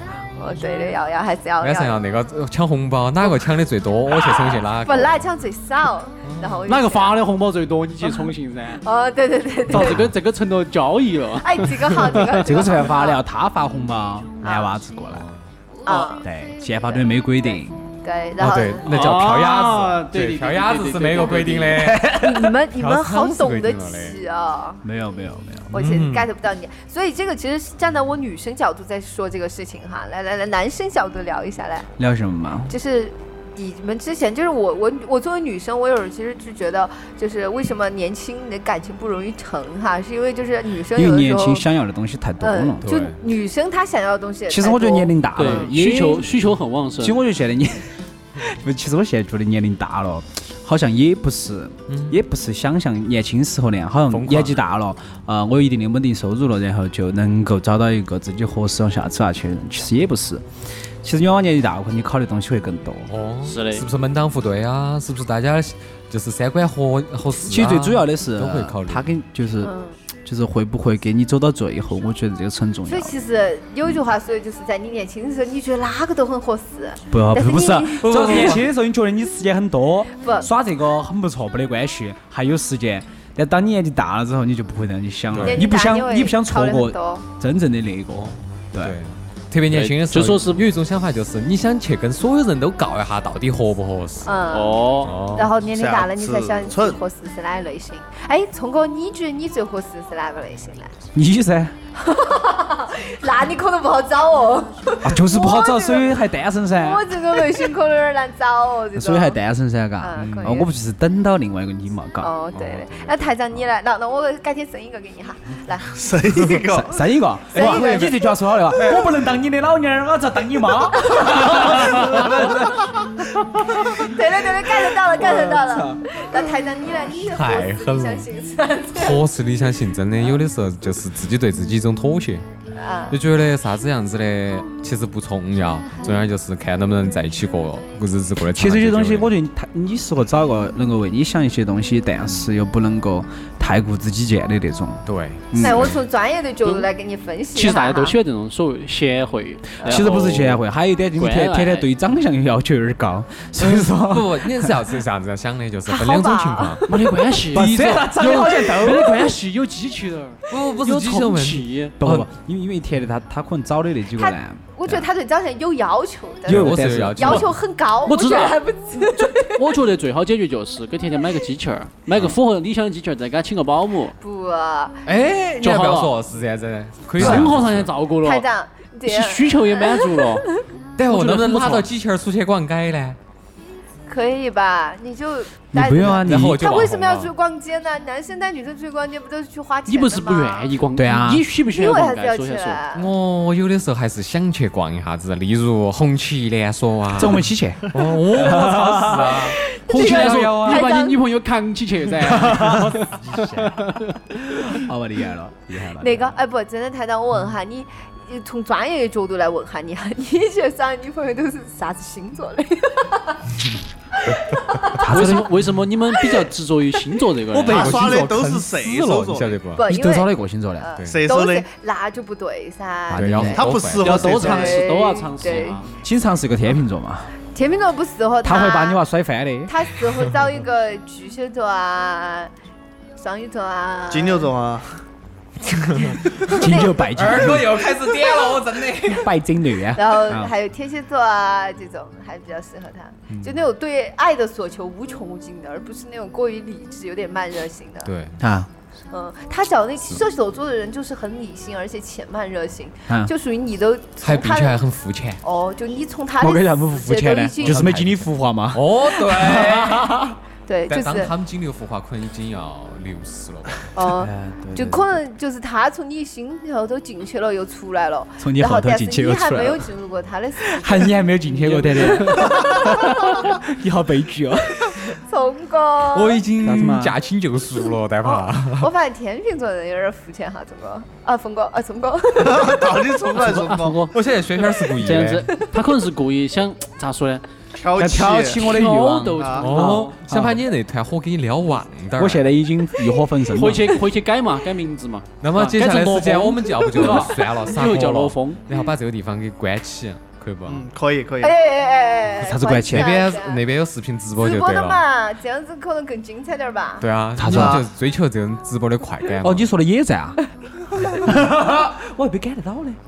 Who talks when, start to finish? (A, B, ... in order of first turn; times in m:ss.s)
0:00.4-0:02.0 A
0:01.6-0:05.2 B
0:04.8-0:07.2 A
0:06.2-0:06.6 B
0:06.6-0:08.8 C
0:08.8-0:10.1 A
0:09.7-0:12.5 C
0:11.4-0:13.2 A
0:12.4-0:15.2 D
0:14.4-0:14.8 A
0:15.1-0:15.4 B
0:15.8-0:16.2 A
0:16.2-0:17.8 D
0:16.9-0:18.9 A
0:18.4-0:22.2 B
0:18.8-0:21.9 C
0:21.8-0:22.5 D
0:22.1-0:24.8 A
0:22.7-0:24.2 B
0:24.8-0:25.7 D
0:25.7-0:26.3 B
0:25.7-0:31.9 A
0:32.0-0:32.7 D
0:32.7-0:41.6 A
0:40.9-0:42.8 D
0:42.4-0:45.7 A
0:42.8-0:43.2 B
0:44.5-0:46.3 D
0:45.3-0:47.2 C
0:47.0-1:00.4 D
0:51.9-0:52.2 B
0:54.1-0:54.6 B
1:01.0-1:03.1 D
1:03.1-1:09.1 B
1:03.4-1:03.9 C
1:07.4-1:09.7 D
1:09.6-1:10.0 A
1:10.2-1:13.2 D
1:12.8-1:18.6 A
1:17.1-1:29.0 D
1:18.0-1:18.7 B
1:20.2-1:20.5 A
1:25.3-1:25.6 B
1:25.4-1:27.2 A
1:28.1-1:34.4 B
1:29.7-1:30.6 C
1:34.2-1:40.9 A
1:34.5-1:35.1 C
1:35.0-1:35.5 B
1:35.7-1:37.0 E
1:41.1-1:41.7 D
1:42.0-1:46.2 A
1:45.0-1:47.4 D
1:46.7-1:49.4 A
1:48.9-1:52.3 D
1:50.0-1:50.7 A
1:52.2-1:55.9 A
1:52.5-1:53.3 B
1:55.9-1:57.0 E
1:56.6-2:02.9 D
1:57.5-1:59.0 A
1:57.6-1:58.1 B
2:01.0-2:01.5 A
2:03.9-2:09.2 A
2:04.7-2:06.0 D
2:07.3-2:08.3 B
2:08.9-2:12.4 B
2:12.8-2:13.2 A
2:13.1-2:19.3 B
2:18.5-2:25.9 D
2:25.0-2:26.0 B
2:25.6-2:28.2 A
2:27.5-2:30.6 C
2:29.8-2:34.9 D
2:31.1-2:31.9 C
2:33.6-2:36.9 B
2:35.9-2:37.0 A
2:36.9-2:42.0 C
2:37.5-2:39.4 D
2:40.5-2:42.3 B
2:42.0-2:44.8 D
2:44.2-2:49.6 A
2:46.5-2:47.4 D
2:46.5-2:47.5 B
2:48.0-2:54.2 C
2:54.2-2:55.0 A
2:55.0-2:57.9 B
2:55.6-2:56.2 C
2:57.2-2:58.4 C
2:57.2-2:57.5 D
2:58.2-3:00.6 A
2:59.0-3:00.4 C
3:01.0-3:03.2 B
3:01.1-3:01.6 D
3:01.3-3:01.8 C
3:04.1-3:10.7 A
3:05.7-3:06.6 D
3:06.2-3:07.3 B
3:09.9-3:12.8 C
3:10.9-3:11.4 D
3:11.7-3:13.1 A
3:12.9-3:20.8 B
3:17.1-3:19.5 D
3:19.4-3:21.2 A
3:19.9-3:24.2 C
3:20.3-3:20.8 D
3:22.2-3:26.4 D
3:26.0-3:33.6 A
3:34.2-3:35.0 A
3:35.0-3:35.6 D
3:35.1-3:38.1 C
3:36.2-3:36.4 A
3:37.5-3:39.8 B
3:37.6-3:39.6 E
3:39.8-3:43.5 A
3:39.8-3:40.9 D
3:41.1-3:41.6 E
3:43.1-3:43.7 D
3:43.1-3:44.2 B
3:43.5-3:44.8 E
3:44.0-3:45.9 C
3:44.2-3:45.8 A
3:46.0-3:47.3 D
3:47.5-3:49.0 A
3:48.4-3:49.7 D
3:49.6-3:52.5 A
3:53.2-3:54.5 A
3:54.1-3:55.0 E
3:55.7-3:59.3 B
3:56.0-3:57.0 A
3:56.4-3:57.8 D
3:59.0-4:00.5 D
3:59.9-4:08.1 A
4:08.0-4:08.4 B
4:08.4-4:08.7 D
4:09.1-4:14.8 A
4:14.2-4:15.4 B
4:15.4-4:17.9 A
4:16.4-4:20.3 D
4:17.6-4:20.3 B
4:20.7-4:21.3 A
4:20.9-4:23.9 B
4:23.9-4:31.1 A
4:24.0-4:25.1 D
4:28.4-4:29.9 D
4:30.6-4:35.2 D
4:31.6-4:32.6 C
4:32.3-4:33.1 A
4:35.0-4:36.4 A
4:36.1-4:38.9 B
4:36.6-4:37.2 D
4:38.2-4:43.0 A
4:42.4-4:44.0 E
4:43.3-4:47.4 C
4:44.1-4:45.5 B
4:47.8-4:48.7 E
4:48.0-4:50.6 D
4:48.6-4:50.2 C
4:49.4-4:49.7 E
4:49.6-4:52.4 B
4:52.2-4:54.0 D
4:53.5-4:58.6 C
4:55.4-5:00.8 B
5:00.6-5:01.5 E
5:01.4-5:03.6 A
5:02.4-5:03.2 D
5:02.9-5:05.0 B
5:04.4-5:07.0 A
5:07.0-5:09.7 B
5:07.4-5:07.8 D
5:07.4-5:07.8 E
5:09.4-5:10.4 D
5:11.1-5:13.0 D